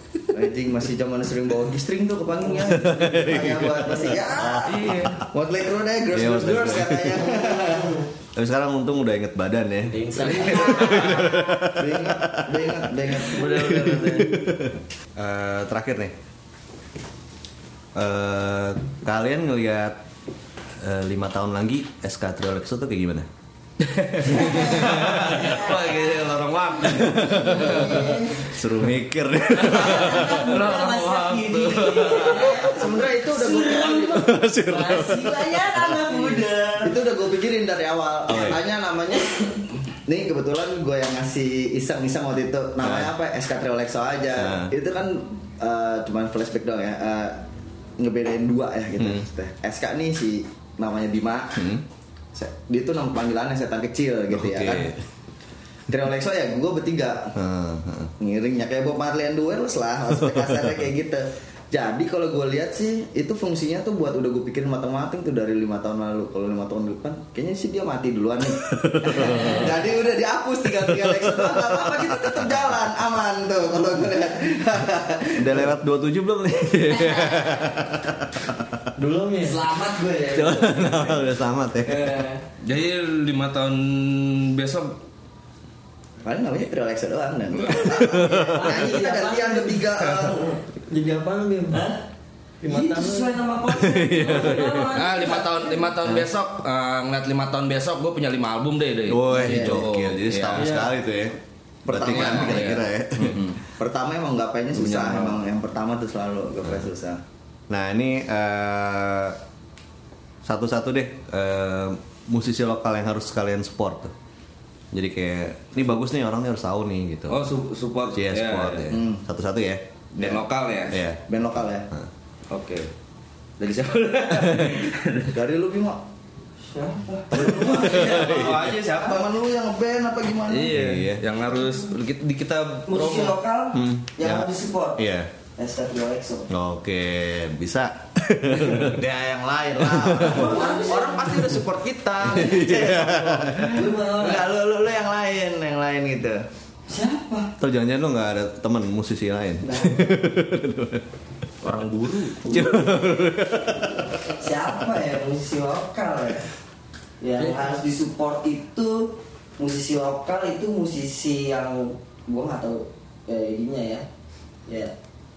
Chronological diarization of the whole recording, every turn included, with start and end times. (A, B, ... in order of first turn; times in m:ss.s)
0:00.3-0:08.1 A
0:02.5-0:05.2 B
0:04.6-0:05.2 C
0:06.1-0:07.3 B
0:07.3-0:08.0 D
0:08.4-0:16.1 B
0:09.9-0:11.0 E
0:10.4-0:11.2 C
0:11.8-0:13.5 A
0:13.3-0:14.5 C
0:18.0-0:20.0 B
0:20.8-0:23.3 B
0:23.8-0:28.1 C
0:24.4-0:24.8 D
0:24.5-0:25.5 B
0:25.3-0:25.8 D
0:26.9-0:30.4 B
0:27.4-0:28.5 D
0:29.6-0:32.7 C
0:29.7-0:37.0 D
0:32.3-0:34.3 A
0:33.9-0:36.2 B
0:36.8-0:39.5 A
0:38.3-0:38.6 B
0:40.1-0:47.4 A
0:42.8-0:43.1 B
0:44.4-0:44.7 B
0:48.0-0:51.7 A
0:49.0-0:49.2 B
0:51.6-0:51.8 B
0:52.3-0:54.9 A
0:54.3-0:55.0 B
0:55.9-0:57.3 A
0:57.4-0:58.1 B
0:58.2-1:15.7 A
1:08.8-1:09.7 B
1:10.8-1:12.8 B
1:15.4-1:18.8 B
1:19.0-1:19.6 E
1:19.4-1:21.2 D
1:20.3-1:22.1 B
1:22.6-1:25.0 C
1:26.2-1:30.4 A
1:28.0-1:28.6 B
1:28.5-1:30.6 D
1:30.9-1:31.9 E
1:31.7-1:32.0 D
1:32.6-1:33.4 E
1:32.6-1:35.9 D
1:33.7-1:35.0 B
1:35.0-1:40.7 C
1:39.1-1:41.4 B
1:39.4-1:39.9 A
1:40.6-1:40.9 E
1:41.9-1:47.2 A
1:41.9-1:43.5 B
1:41.9-1:42.8 C
1:44.7-1:45.4 C
1:47.7-1:49.4 B
1:50.4-1:54.1 B
1:54.9-1:57.5 B
1:57.3-1:58.9 C
1:58.1-1:59.8 B
1:58.9-1:59.2 A
2:00.2-2:01.0 C
2:00.9-2:01.2 B
2:01.3-2:01.9 A
2:02.5-2:02.9 C
2:03.6-2:05.4 C
2:05.3-2:06.0 A
2:06.7-2:07.7 D
2:07.2-2:10.8 A
2:07.3-2:08.8 B
2:07.4-2:09.3 C
2:10.5-2:13.4 C
2:10.7-2:11.2 B
2:12.9-2:15.0 D
2:13.7-2:15.3 B
2:15.6-2:16.5 D
2:16.5-2:19.0 B
2:18.8-2:26.4 A
2:19.8-2:21.6 B
2:20.2-2:21.3 D
2:22.2-2:23.9 B
2:23.7-2:24.5 D
2:26.9-2:27.5 D
2:27.6-2:31.0 B
2:29.6-2:30.1 D
2:31.6-2:32.6 C
2:32.4-2:34.1 B
2:34.2-2:36.5 D
2:37.2-2:44.0 D
2:44.7-2:44.9 D